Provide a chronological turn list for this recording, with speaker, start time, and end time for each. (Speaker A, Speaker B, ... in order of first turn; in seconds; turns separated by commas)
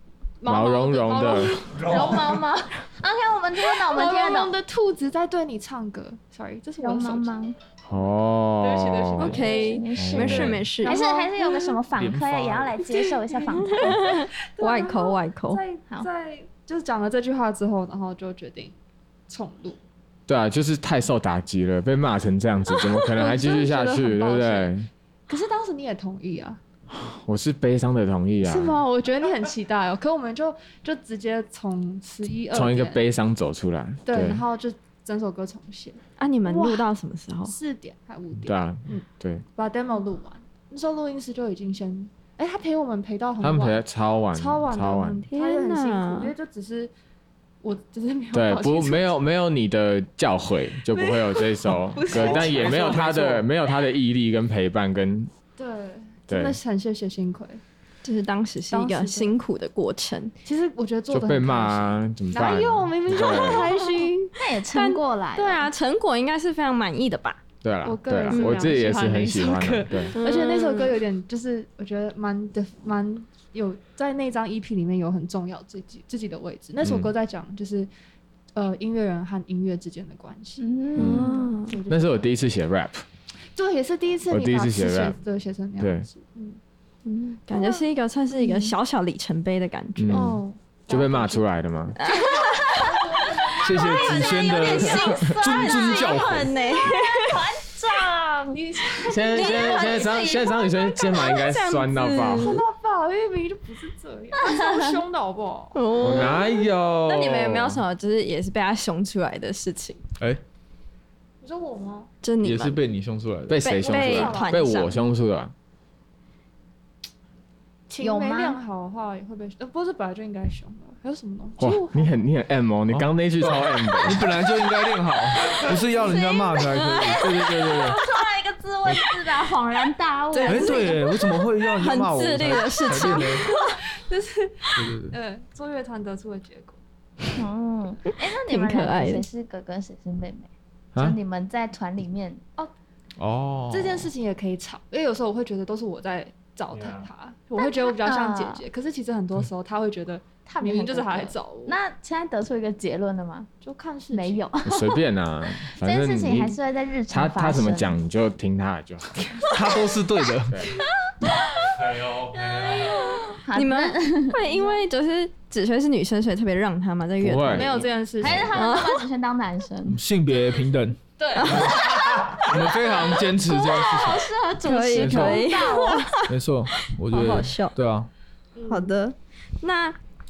Speaker A: 0.4-2.3, Speaker B: 0.5-1.6, Speaker C: 1.6-4.5, Speaker D: 1.8-2.2, Speaker A: 3.7-7.4, Speaker C: 6.8-7.6, Speaker B: 7.8-9.5, Speaker A: 8.6-9.9, Speaker E: 9.2-11.0, Speaker C: 9.4-14.0, Speaker B: 10.0-10.7, Speaker A: 10.8-11.8, Speaker F: 11.9-12.8, Speaker A: 12.8-18.8, Speaker E: 13.7-15.6, Speaker A: 19.3-19.8, Speaker B: 20.3-24.9, Speaker A: 23.0-24.8, Speaker A: 25.3-26.6, Speaker B: 26.9-28.8, Speaker A: 28.4-33.0, Speaker B: 32.5-34.4, Speaker A: 34.1-36.9, Speaker E: 36.2-37.6, Speaker A: 37.4-39.0, Speaker B: 38.4-39.4, Speaker A: 39.6-43.8, Speaker B: 43.4-45.2, Speaker A: 44.3-46.9, Speaker E: 45.3-46.3, Speaker A: 47.6-49.1, Speaker B: 48.3-55.3, Speaker A: 50.9-53.0, Speaker F: 52.1-53.4, Speaker A: 55.6-57.6, Speaker B: 56.3-56.6, Speaker E: 58.0-60.4, Speaker A: 58.7-59.4, Speaker A: 60.5-64.3, Speaker B: 61.1-63.7, Speaker C: 63.2-65.7, Speaker E: 64.7-67.4, Speaker B: 67.6-70.1, Speaker A: 67.8-77.9, Speaker E: 68.3-68.7, Speaker E: 70.2-71.0, Speaker B: 76.8-77.1, Speaker A: 78.5-82.3, Speaker C: 80.6-81.5, Speaker E: 81.0-81.8, Speaker B: 81.9-83.0, Speaker A: 83.5-86.6, Speaker B: 84.3-85.2, Speaker B: 85.8-86.1, Speaker E: 87.0-90.4, Speaker A: 87.5-88.8, Speaker B: 90.0-92.0, Speaker A: 90.1-91.4, Speaker E: 92.0-93.0, Speaker A: 92.0-95.3, Speaker C: 93.5-99.8, Speaker F: 93.6-96.6, Speaker E: 94.5-97.5, Speaker A: 98.5-100.8, Speaker B: 99.1-102.6, Speaker E: 99.3-102.6, Speaker A: 102.3-105.9, Speaker E: 105.7-110.0, Speaker B: 106.0-107.8, Speaker A: 111.4-112.1, Speaker E: 112.2-112.8, Speaker F: 112.4-113.8, Speaker B: 113.5-115.5, Speaker E: 113.6-115.0, Speaker A: 113.8-114.8, Speaker A: 117.9-122.2, Speaker C: 118.0-118.6, Speaker B: 121.6-124.4, Speaker F: 122.9-128.0, Speaker A: 125.6-125.9, Speaker C: 125.9-131.0, Speaker E: 126.8-127.2, Speaker E: 130.3-133.8, Speaker F: 130.4-133.5, Speaker A: 133.2-136.8, Speaker F: 134.8-135.2, Speaker C: 137.4-142.4, Speaker E: 138.5-139.2, Speaker F: 143.2-144.1, Speaker A: 143.7-151.8, Speaker D: 146.7-147.1, Speaker C: 147.6-148.6, Speaker C: 150.5-153.5, Speaker A: 153.6-154.5, Speaker C: 154.1-155.0, Speaker B: 154.7-156.6, Speaker C: 155.7-157.9, Speaker B: 157.1-159.4, Speaker F: 159.5-160.7, Speaker D: 161.7-163.0, Speaker C: 162.6-164.8, Speaker E: 162.9-167.9, Speaker B: 167.2-168.5, Speaker A: 167.4-168.5, Speaker C: 168.2-170.0, Speaker E: 168.5-169.1, Speaker F: 169.9-171.8, Speaker A: 171.2-171.7, Speaker E: 171.3-172.2, Speaker D: 172.0-172.4, Speaker F: 172.4-174.3, Speaker B: 172.5-172.9, Speaker E: 173.5-177.8, Speaker C: 173.9-176.0, Speaker F: 174.9-175.4, Speaker F: 176.3-178.1, Speaker A: 178.6-179.0, Speaker E: 178.7-180.0